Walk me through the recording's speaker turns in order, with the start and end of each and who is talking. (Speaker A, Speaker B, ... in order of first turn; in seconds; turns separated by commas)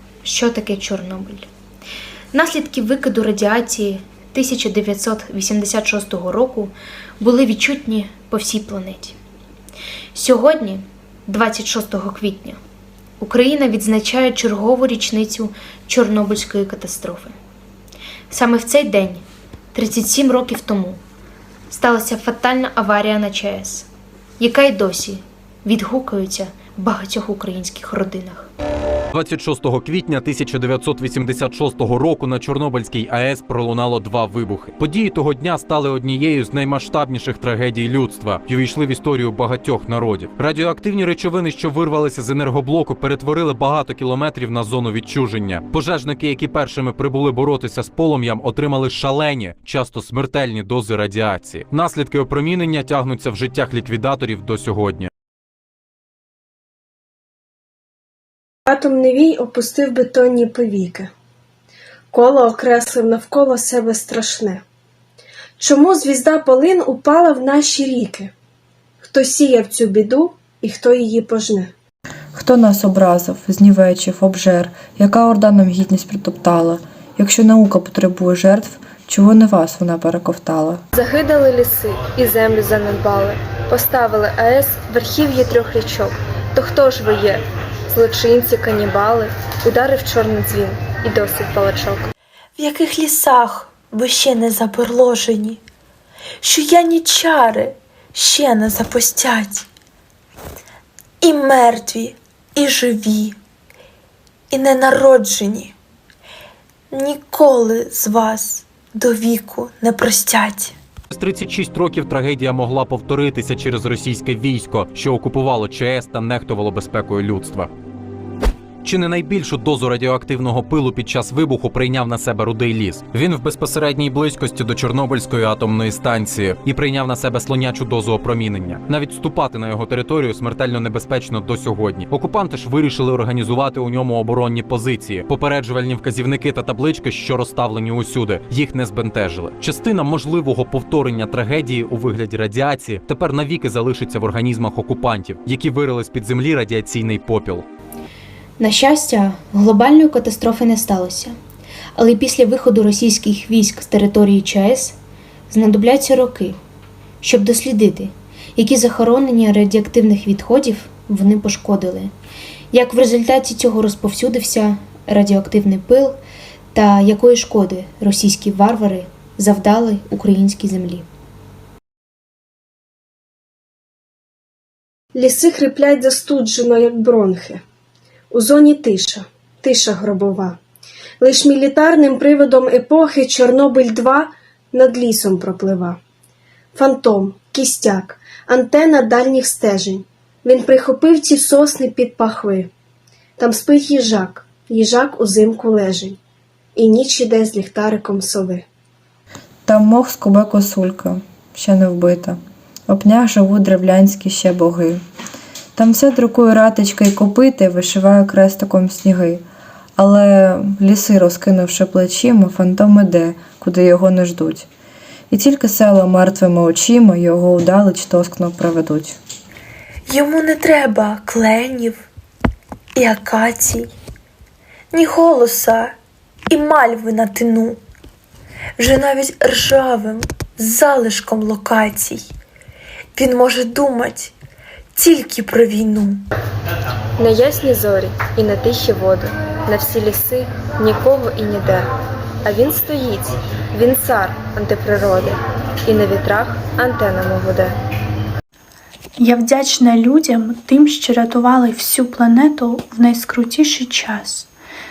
Speaker A: 0.2-1.5, Speaker A: 2.3-9.2, Speaker A: 10.1-12.6, Speaker A: 13.2-17.4, Speaker A: 18.3-21.0, Speaker A: 21.7-28.5, Speaker B: 29.1-55.1, Speaker C: 58.6-61.1, Speaker C: 62.1-64.6, Speaker C: 65.6-68.3, Speaker C: 69.0-71.7, Speaker D: 72.3-80.8, Speaker E: 80.9-92.1, Speaker F: 92.6-95.6, Speaker F: 96.4-99.7, Speaker F: 101.2-103.4, Speaker F: 104.5-105.8, Speaker F: 106.9-110.8, Speaker B: 111.1-117.7, Speaker B: 118.8-147.7, Speaker A: 148.6-151.3, Speaker A: 152.0-155.0, Speaker A: 155.5-156.6, Speaker A: 157.2-162.1, Speaker A: 162.7-166.2, Speaker A: 166.7-171.1, Speaker C: 175.1-177.6, Speaker C: 178.3-180.6, Speaker C: 181.2-186.0, Speaker C: 186.7-192.7, Speaker C: 193.4-196.2, Speaker C: 196.8-198.7, Speaker D: 199.7-205.0, Speaker D: 205.8-209.4, Speaker D: 210.0-214.7, Speaker D: 215.3-219.2, Speaker F: 220.1-222.1, Speaker F: 223.0-223.9, Speaker F: 224.9-226.0, Speaker F: 226.5-227.8, Speaker F: 228.8-232.3, Speaker F: 233.2-234.3, Speaker F: 235.0-236.2, Speaker E: 237.2-241.9, Speaker E: 242.4-247.8, Speaker G: 249.2-254.5